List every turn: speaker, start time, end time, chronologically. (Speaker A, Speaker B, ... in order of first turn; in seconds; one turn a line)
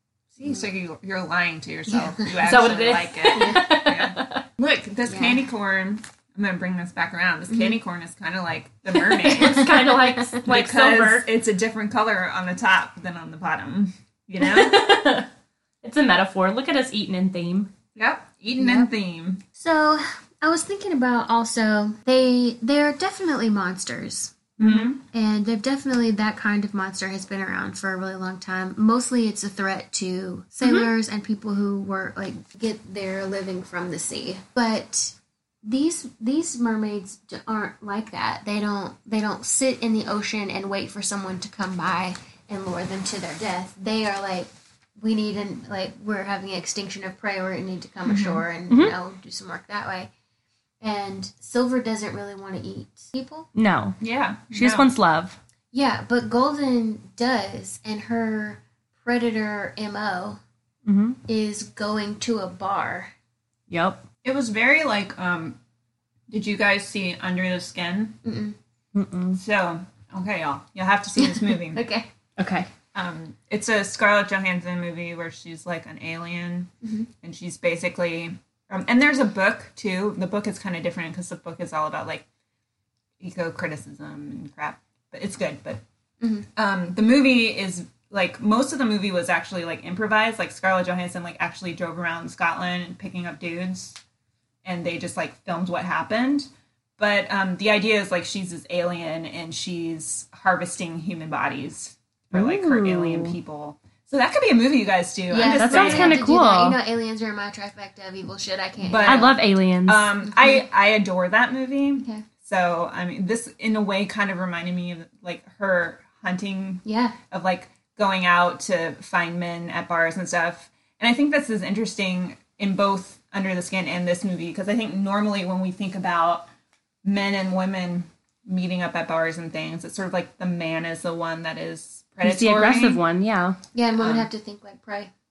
Speaker A: 0.3-9.7
Speaker B: 0.4-0.7
Speaker B: 1.9-2.8
Speaker C: 2.4-4.4
Speaker B: 3.3-3.7
Speaker B: 5.1-5.4
Speaker C: 9.0-11.3
Speaker B: 9.3-10.3
Speaker A: 10.4-15.0
Speaker C: 14.4-15.3
Speaker C: 15.8-17.7
Speaker A: 17.9-19.4
Speaker B: 18.6-18.9
Speaker B: 19.5-50.1
Speaker A: 24.6-25.0
Speaker C: 24.6-24.9
Speaker C: 30.6-30.9
Speaker A: 48.0-48.4
Speaker C: 48.7-48.9
Speaker B: 50.8-53.5
Speaker C: 53.5-54.0
Speaker A: 54.0-54.9
Speaker C: 54.5-55.4
Speaker B: 55.7-60.4
Speaker C: 60.9-61.2
Speaker B: 61.3-63.1
Speaker C: 63.7-64.0
Speaker A: 64.2-65.6
Speaker A: 66.3-68.2
Speaker B: 68.2-68.5
Speaker C: 68.9-69.4
Speaker A: 69.4-71.8
Speaker B: 71.2-72.1
Speaker C: 72.4-72.7
Speaker A: 72.9-76.7
Speaker B: 76.8-77.1
Speaker A: 77.2-82.2
Speaker A: 83.2-85.8
Speaker B: 86.2-86.5
Speaker A: 86.5-94.0
Speaker A: 94.6-106.2
Speaker C: 102.3-103.3
Speaker B: 105.3-109.4
Speaker C: 105.5-106.8
Speaker A: 108.8-126.5
Speaker C: 109.0-110.1
Speaker B: 110.3-110.6
Speaker B: 112.0-112.3
Speaker B: 116.8-117.2
Speaker A: 127.0-133.0
Speaker C: 132.2-133.6
Speaker B: 133.7-135.1
Speaker A: 134.0-134.3